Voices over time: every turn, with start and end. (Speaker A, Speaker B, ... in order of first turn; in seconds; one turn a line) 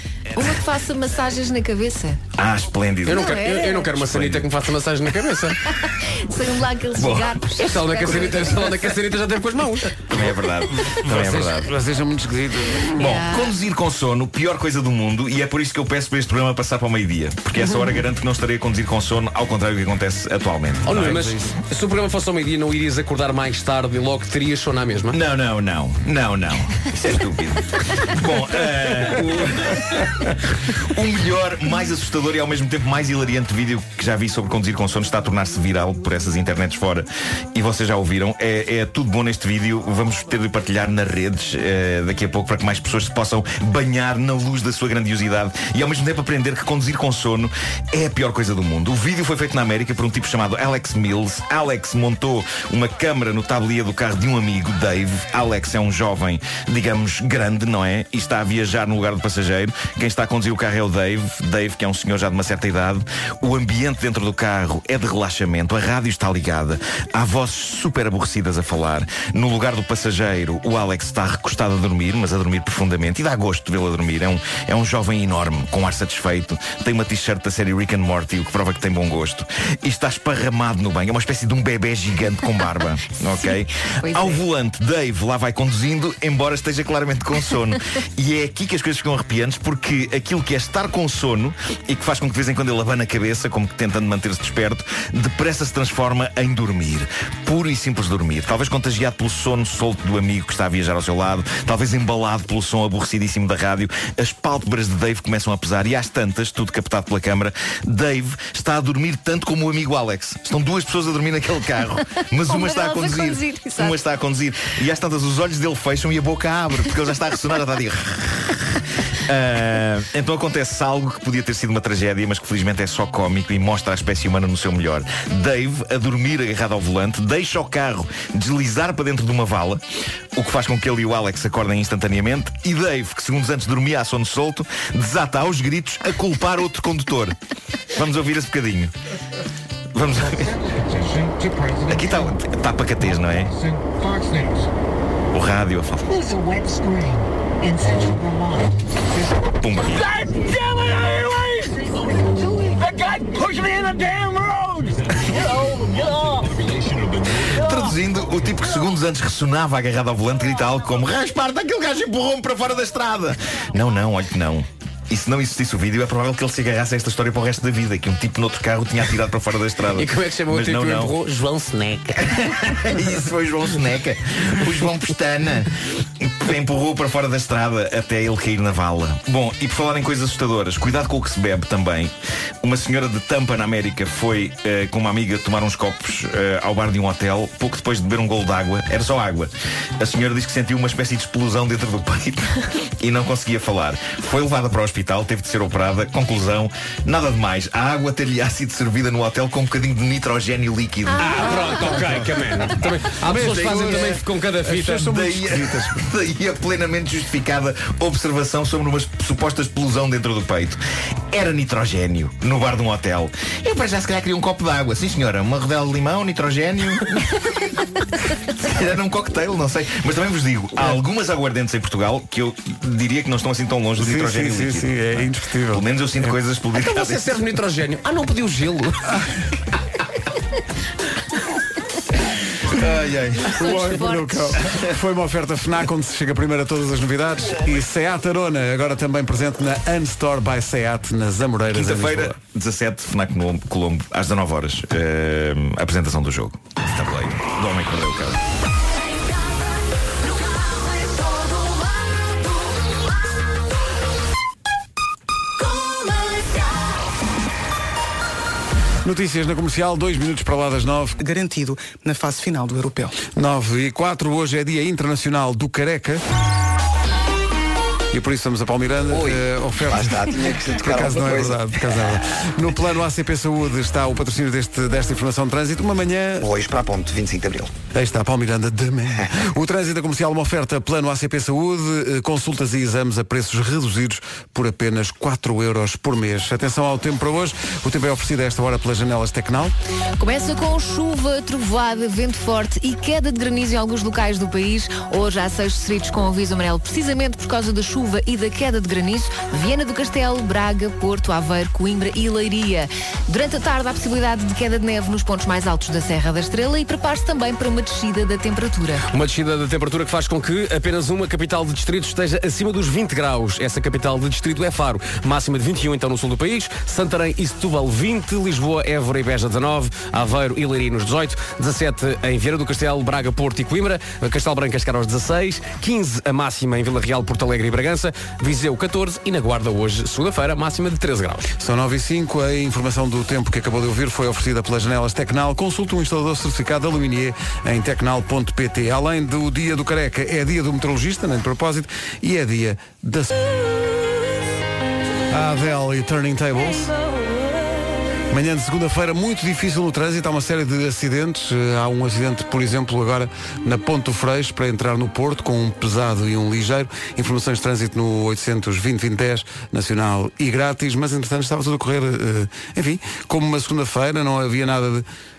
Speaker A: 0.3-2.2
Speaker B: 2.4-4.5
Speaker C: 3.0-5.6
Speaker A: 3.1-3.9
Speaker A: 5.8-8.8
Speaker B: 7.0-7.4
Speaker C: 7.6-9.9
Speaker B: 10.1-11.7
Speaker D: 10.9-13.1
Speaker A: 12.9-13.5
Speaker B: 13.0-21.1
Speaker C: 20.8-25.2
Speaker D: 20.9-21.6
Speaker B: 25.1-129.8
Speaker A: 83.3-84.4
Speaker A: 112.4-114.0
Speaker B: 130.3-137.3
Speaker B: 137.9-138.9
Speaker B: 139.9-140.6
Speaker E: 140.2-142.3
Speaker B: 141.9-143.5
Speaker E: 143.0-144.7
Speaker B: 145.3-146.3
Speaker E: 146.1-158.7
Speaker B: 149.6-150.1
Speaker B: 157.4-171.1
Speaker C: 169.9-172.3
Speaker B: 172.2-201.3
Speaker A: 201.1-201.8
Speaker C: 201.2-205.1
Speaker D: 201.4-202.4
Speaker D: 203.2-206.1
Speaker B: 203.5-204.0
Speaker B: 205.1-210.8
Speaker B: 211.3-217.3
Speaker B: 218.6-227.4
Speaker D: 224.0-226.3
Speaker C: 226.7-229.2
Speaker B: 232.7-233.6
Speaker A: 233.4-234.7
Speaker D: 233.6-242.4
Speaker B: 241.7-248.4
Speaker D: 259.0-261.2
Speaker F: 261.2-263.2
Speaker D: 263.3-266.2
Speaker D: 268.1-276.5
Speaker G: 269.1-272.1
Speaker G: 276.4-277.7
Speaker D: 277.9-289.7
Speaker A: 290.2-309.0
Speaker C: 309.1-331.5
Speaker D: 331.6-343.4
Speaker D: 345.3-346.9
Speaker D: 348.3-365.0